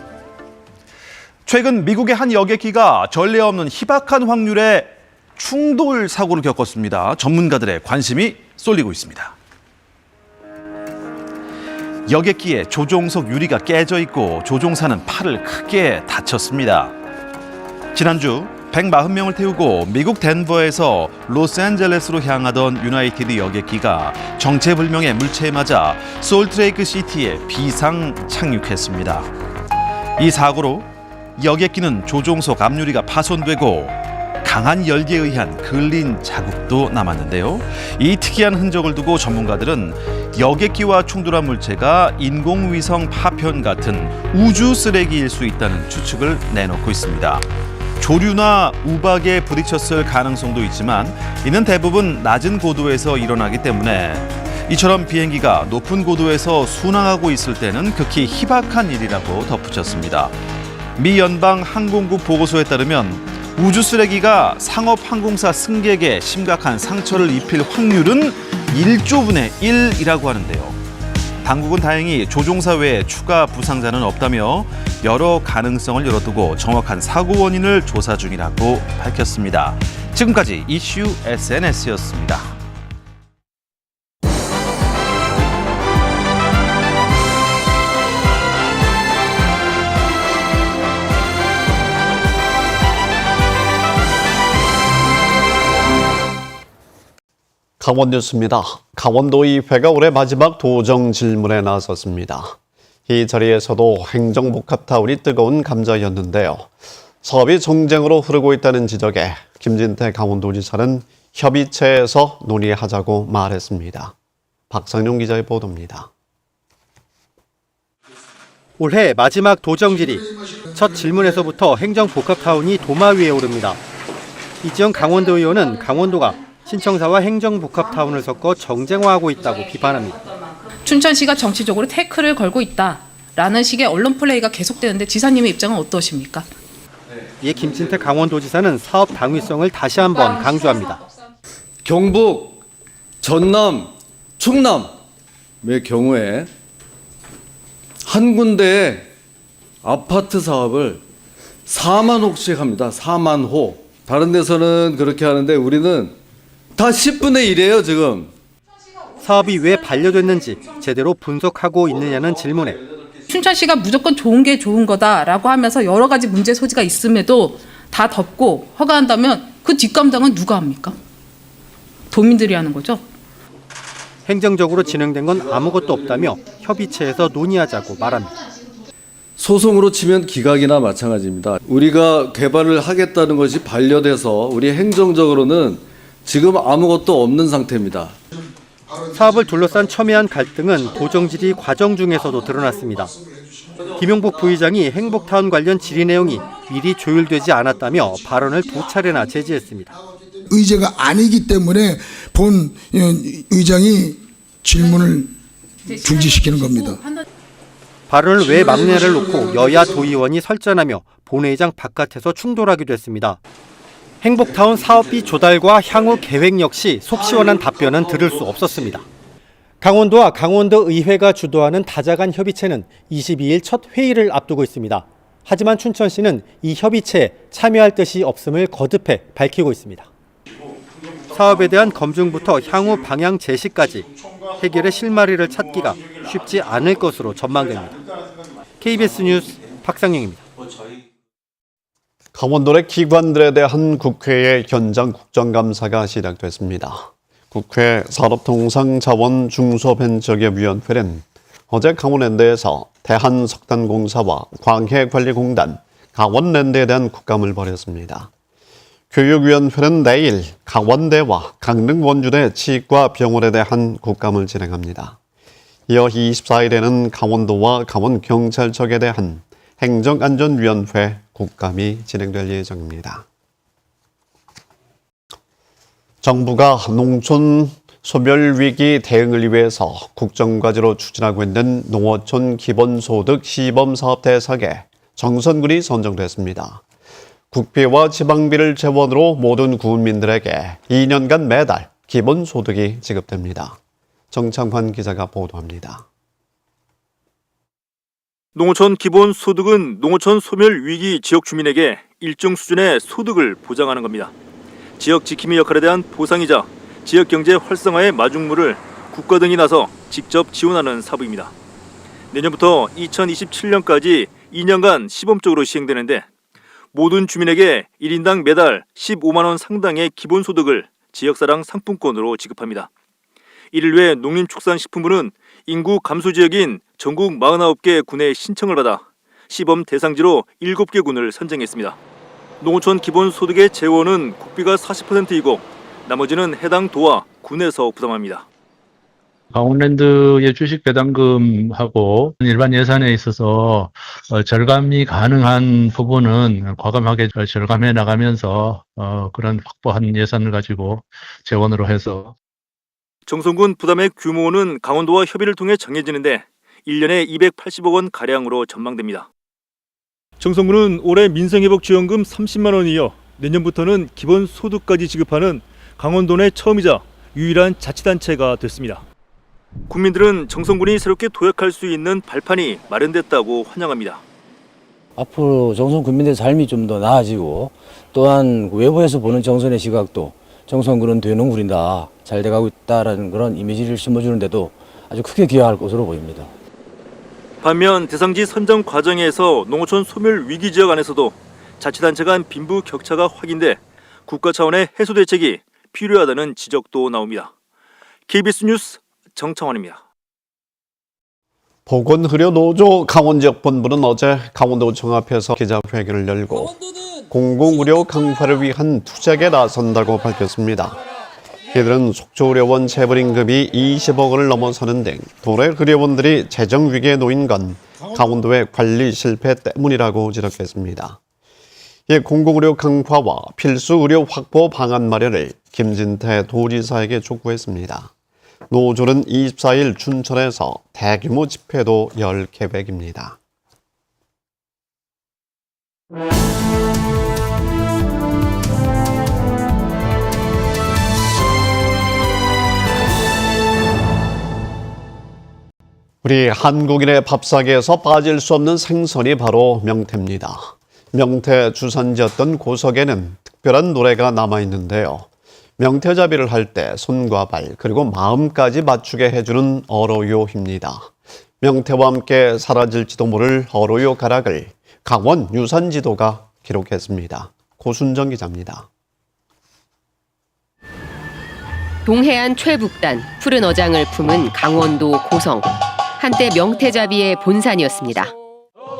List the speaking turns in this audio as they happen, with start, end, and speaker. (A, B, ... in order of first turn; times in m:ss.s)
0:01.4-0:09.4 A
0:12.1-0:17.0 A
0:17.9-0:29.3 A
0:30.2-0:47.5 A
0:48.0-1:00.4 A
1:01.0-1:10.8 A
1:11.4-1:22.6 A
1:37.8-1:42.6 B
1:43.1-1:46.7 B
1:47.2-1:54.1 B
1:54.7-1:56.1 B
1:58.8-2:03.8 C
2:04.6-2:10.2 C
2:10.7-2:16.5 D
2:17.4-2:21.0 C
2:20.1-2:21.0 D
2:21.8-2:22.6 E
2:23.2-2:25.0 E
2:25.6-2:26.5 E
2:28.0-2:29.1 E
2:29.8-2:31.0 E
2:31.7-2:36.2 E
2:36.8-2:38.3 E
2:39.2-2:42.8 C
2:43.3-2:51.0 D
2:52.1-2:53.0 D
2:54.3-2:58.4 C
2:54.8-2:56.4 E
2:59.4-3:08.2 E
3:09.1-3:13.2 C
3:14.0-3:20.0 C
3:20.5-3:20.9 C
3:20.5-3:24.2 F
3:24.7-3:25.2 F
3:24.8-3:25.1 D
3:25.9-3:27.2 D
3:26.0-3:27.0 F
3:28.1-3:33.4 C
3:34.2-3:39.0 C
3:39.8-3:50.1 C
3:51.3-3:58.0 C
3:58.8-4:00.4 C
4:02.4-4:18.3 B
4:19.1-4:25.2 B
4:25.9-4:33.2 B
4:36.2-4:46.8 B
4:47.5-4:53.8 B
4:54.3-4:56.0 B
4:58.6-5:04.3 G
5:05.0-5:11.5 G
5:12.3-5:16.2 G
5:16.9-5:22.9 G
5:23.7-5:32.0 G
5:32.6-5:38.4 G
5:39.5-5:52.4 H
5:53.3-5:59.3 G
6:00.4-6:09.0 G
6:09.9-6:14.2 G
6:15.2-6:26.5 I
6:27.6-6:37.5 G
6:38.3-6:40.0 G
6:41.9-6:51.0 B
6:51.7-7:01.2 B
7:02.1-7:08.1 B
7:08.7-7:13.4 B
7:26.2-7:35.3 B
7:35.8-7:41.1 B
7:41.6-7:48.9 B
7:52.1-7:58.3 J